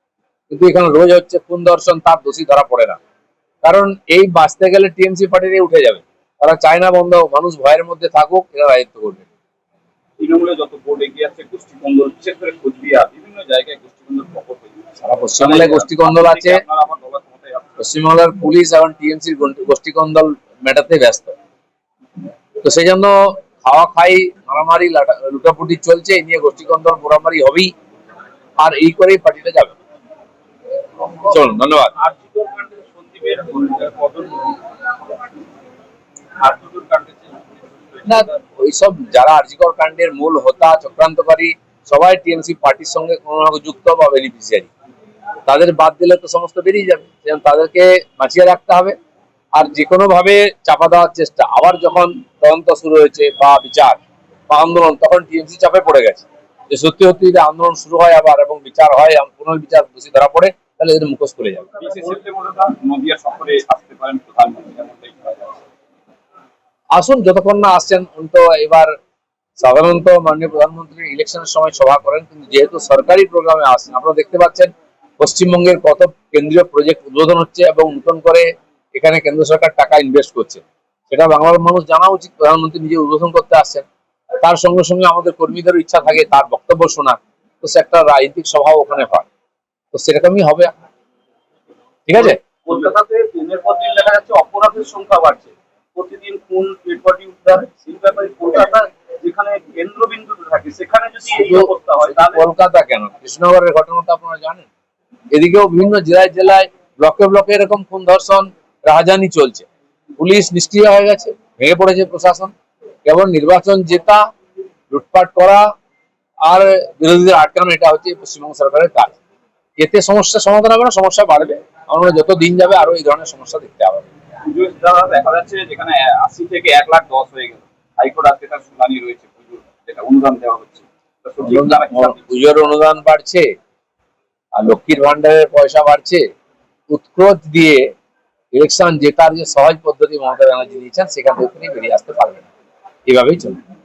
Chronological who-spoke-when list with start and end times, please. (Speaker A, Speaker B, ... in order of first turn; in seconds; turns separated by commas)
Speaker A: 0.5-3.0, Speaker A: 3.6-9.2, Speaker B: 10.2-17.8, Speaker A: 15.0-16.6, Speaker A: 17.8-21.3, Speaker A: 22.6-27.7, Speaker A: 28.6-29.7, Speaker A: 31.2-31.9, Speaker B: 32.0-34.6, Speaker B: 36.4-38.4, Speaker A: 38.0-44.7, Speaker A: 45.5-48.9, Speaker A: 49.5-54.0, Speaker A: 54.5-61.7, Speaker B: 61.8-65.6, Speaker A: 66.9-68.9, Speaker A: 69.6-83.8, Speaker A: 84.4-89.3, Speaker A: 89.9-90.7, Speaker A: 92.1-92.4, Speaker B: 92.6-102.5, Speaker A: 101.4-104.7, Speaker A: 105.3-112.5, Speaker A: 113.0-114.2, Speaker A: 114.9-115.7, Speaker A: 116.5-119.2, Speaker A: 119.8-124.1, Speaker B: 124.5-132.3, Speaker A: 131.4-133.5, Speaker A: 134.6-136.2, Speaker A: 136.9-137.8, Speaker A: 138.5-142.5, Speaker A: 143.1-143.6